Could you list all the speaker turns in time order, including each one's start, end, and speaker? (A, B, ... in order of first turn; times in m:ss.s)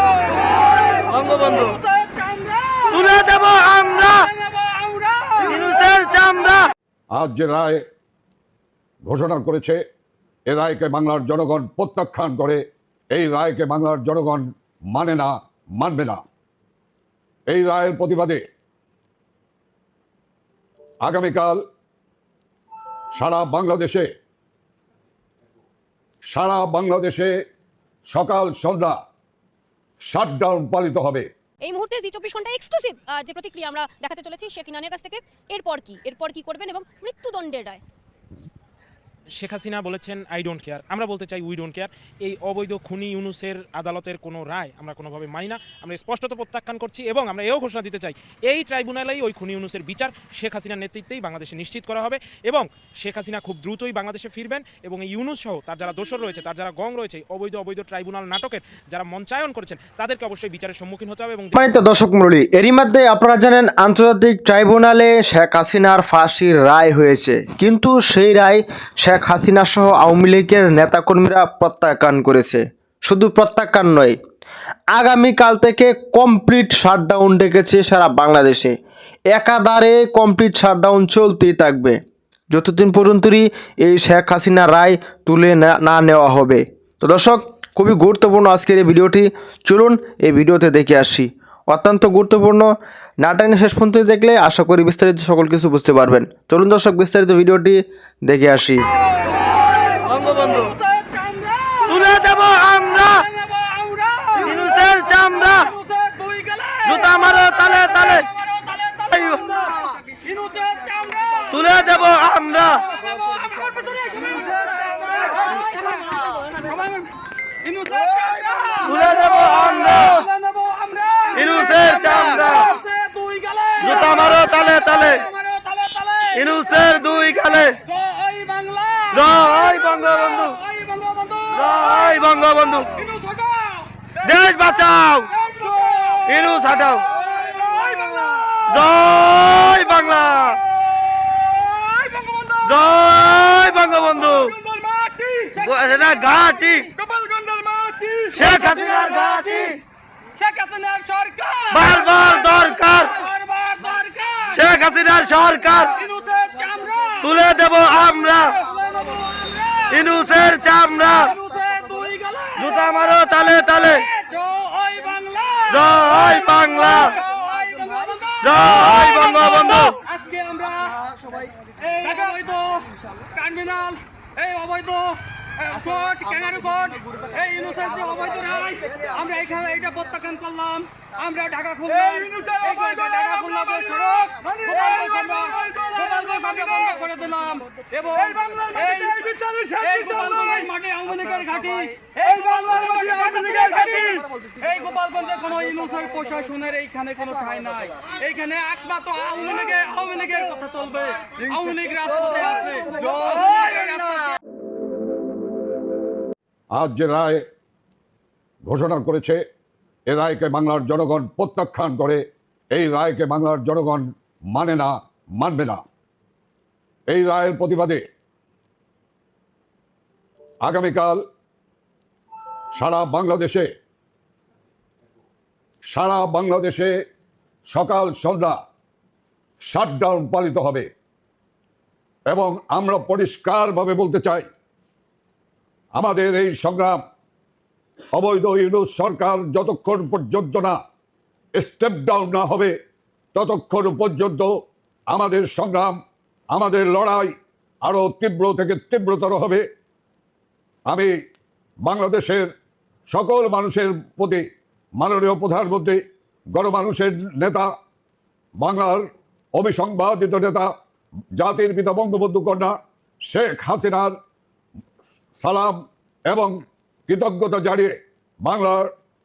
0:00.2-0:06.7 A
0:01.1-0:01.6 B
0:02.9-0:04.0 B
0:05.6-0:06.6 B
0:07.1-0:07.8 C
0:09.0-0:09.8 C
0:10.5-0:16.2 C
0:17.5-0:18.4 C
0:21.0-0:21.6 C
0:23.1-0:24.0 C
0:26.3-0:27.3 C
0:28.1-0:29.0 C
0:30.0-0:31.3 C
0:31.6-0:37.8 D
0:39.4-1:01.7 E
1:01.5-1:14.2 F
1:14.9-1:18.7 F
1:19.3-1:22.0 F
1:22.5-1:32.7 F
1:33.2-1:38.8 F
1:39.2-2:07.2 A
1:42.0-1:43.1 B
1:44.5-1:45.5 B
1:47.0-1:48.2 B
1:49.1-1:49.5 B
1:51.5-1:52.7 B
1:58.8-2:00.2 B
2:01.3-2:02.7 B
2:03.8-2:05.2 B
2:06.4-2:07.8 B
2:07.9-2:14.1 A
2:09.1-2:10.6 B
2:11.6-2:12.9 B
2:14.2-2:15.3 B
2:15.3-2:16.4 A
2:16.3-2:17.0 B
2:17.3-2:18.7 A
2:18.7-2:20.6 B
2:20.0-2:20.3 A
2:21.3-2:22.8 A
2:22.6-2:24.5 B
2:23.8-2:28.9 A
2:25.6-2:26.9 B
2:28.3-2:29.8 B
2:30.4-2:34.7 A
2:31.7-2:33.1 B
2:34.5-2:35.9 B
2:35.8-2:40.2 A
2:37.2-2:38.6 B
2:39.9-2:41.3 B
2:40.9-2:43.1 A
2:42.7-2:44.0 B
2:43.7-2:51.0 A
2:45.7-2:47.1 B
2:48.4-2:49.9 B
2:51.8-3:24.3 A
3:26.7-3:27.4 C
3:28.6-3:29.4 C
3:30.1-3:35.8 C
3:37.1-3:38.0 C
3:40.6-3:41.2 C
3:42.7-3:43.7 C
3:45.9-3:46.9 C
3:47.7-3:48.6 C
3:49.6-3:50.9 C
3:52.3-3:54.5 C
3:55.9-3:57.0 C
3:58.1-4:00.8 C
4:01.5-4:02.7 C
4:03.3-4:04.5 C
4:05.1-4:06.0 C
4:06.5-4:09.6 C
4:11.8-4:12.5 C
4:13.1-4:14.4 C
4:15.0-4:16.0 C
4:16.5-4:17.7 C
4:18.6-4:20.7 C
4:21.4-4:22.7 C
4:23.3-4:24.1 C
4:25.4-4:28.9 C